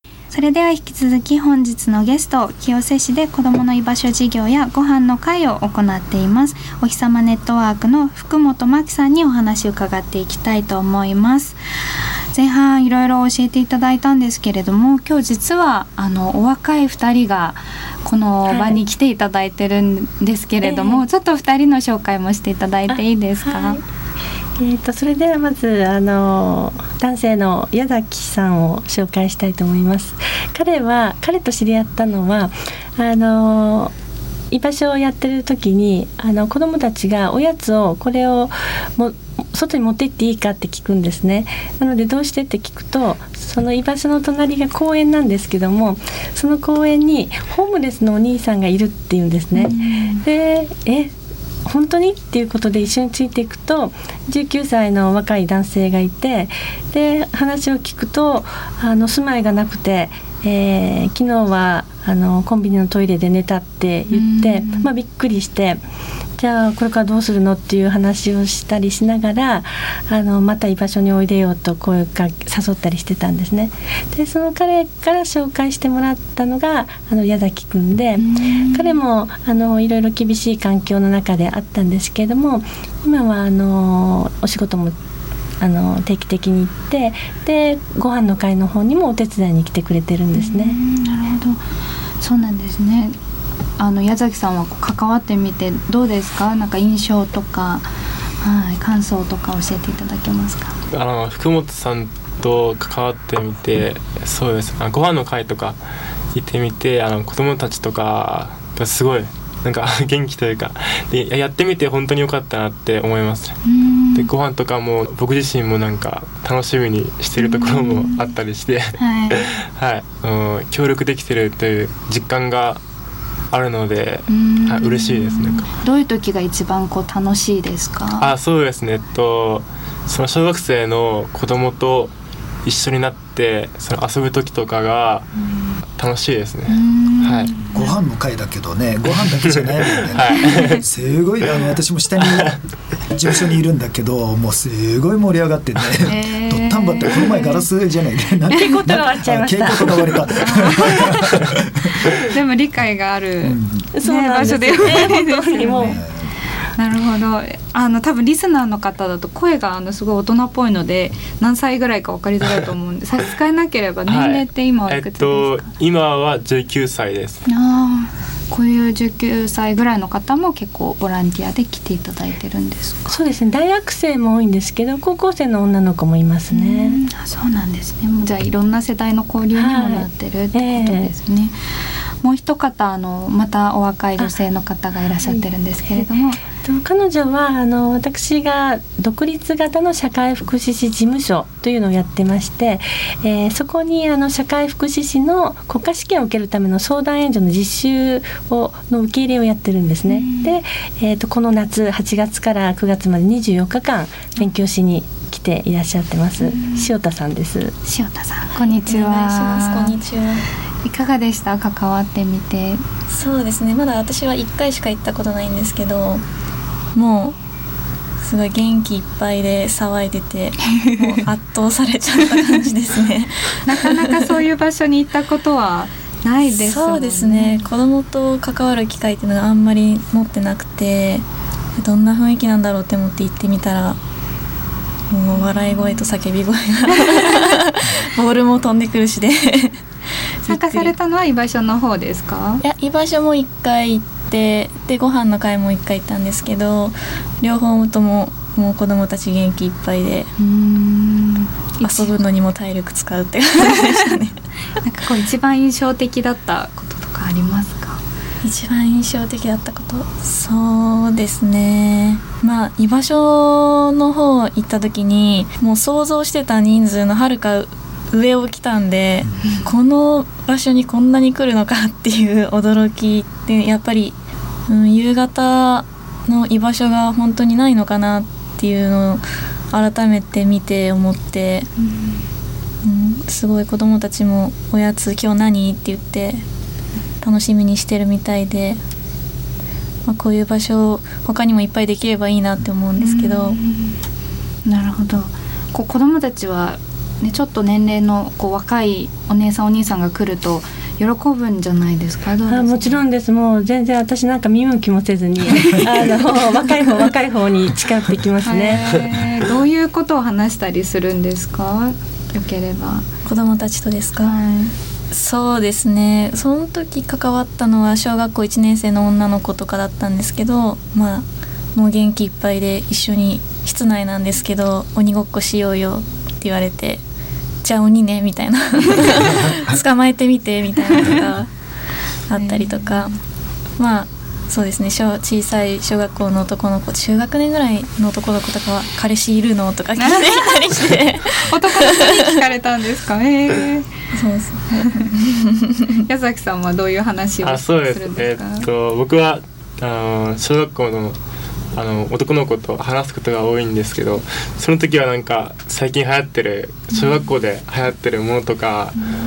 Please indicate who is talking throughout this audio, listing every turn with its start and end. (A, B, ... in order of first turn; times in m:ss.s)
0:00.3-0:11.6 A
0:12.3-0:23.8 A
0:18.5-0:18.8 B
0:20.6-0:21.0 B
0:22.9-0:23.8 B
0:24.6-0:33.9 B
0:34.5-0:51.1 B
0:49.6-0:50.2 A
0:51.7-1:05.8 B
1:04.1-1:04.9 A
1:06.4-1:25.0 B
1:18.2-1:19.0 A
1:25.6-1:30.8 B
1:30.4-1:31.6 A
1:32.2-1:33.2 A
1:33.8-1:37.9 A
1:38.4-1:40.8 A
1:40.9-1:45.8 C
1:46.3-1:53.6 C
1:53.7-1:54.3 A
1:54.1-2:02.8 C
1:57.4-1:58.3 A
1:59.0-1:59.5 A
2:03.5-2:05.7 C
2:04.3-2:08.3 A
2:08.2-2:15.3 C
2:16.0-2:17.5 C
2:16.7-2:18.0 A
2:17.7-2:22.6 D
2:19.5-2:20.8 C
2:22.2-2:22.6 C
2:23.1-2:32.1 D
2:26.0-2:27.7 A
2:28.5-2:30.2 B
2:30.4-2:31.4 A
2:32.2-2:36.0 A
2:33.4-2:33.9 D
2:34.0-2:36.0 B
2:34.6-2:35.2 D
2:35.8-2:36.3 D
2:36.8-2:45.7 A
2:44.1-2:47.4 C
2:47.5-2:53.2 A
2:53.1-2:57.0 B
2:56.5-3:01.6 A
2:59.6-3:01.1 B
3:02.2-3:06.4 A
3:05.3-3:06.1 B
3:06.6-3:27.7 B
3:20.1-3:20.6 A
3:26.4-3:26.9 A
3:27.8-3:30.0 A
3:28.6-3:30.4 E
3:30.8-3:32.8 A
3:33.1-3:36.2 E
3:37.0-3:37.4 E
3:38.2-3:44.3 E
3:43.6-3:47.7 A
3:46.5-3:51.3 E
3:51.8-3:54.0 E
3:55.1-3:59.8 E
3:57.1-3:57.4 A
4:00.4-4:00.9 E
4:00.5-4:02.6 A
4:02.6-4:10.3 E
4:10.4-4:12.2 A
4:11.8-4:14.4 E
4:13.7-4:14.2 A
4:14.8-4:18.0 A
4:18.4-4:41.7 E
4:42.8-4:46.4 E
4:47.2-4:48.8 E
4:50.1-4:53.6 E
4:53.0-4:54.0 A
4:54.6-5:03.0 A
5:02.5-5:08.8 B
5:05.5-5:06.6 A
5:08.4-5:13.1 A
5:13.3-5:14.4 E
5:14.2-5:14.8 A
5:15.1-5:27.0 E
5:27.6-5:31.5 E
5:32.3-5:33.1 E
5:32.3-5:33.1 A
5:33.8-5:42.4 E
5:40.0-5:40.7 A
5:41.4-5:43.9 A
5:44.1-5:45.2 E
5:44.7-5:45.1 A
5:46.0-5:48.7 A
5:47.4-5:51.2 C
5:51.7-5:59.0 C
5:56.9-5:57.2 A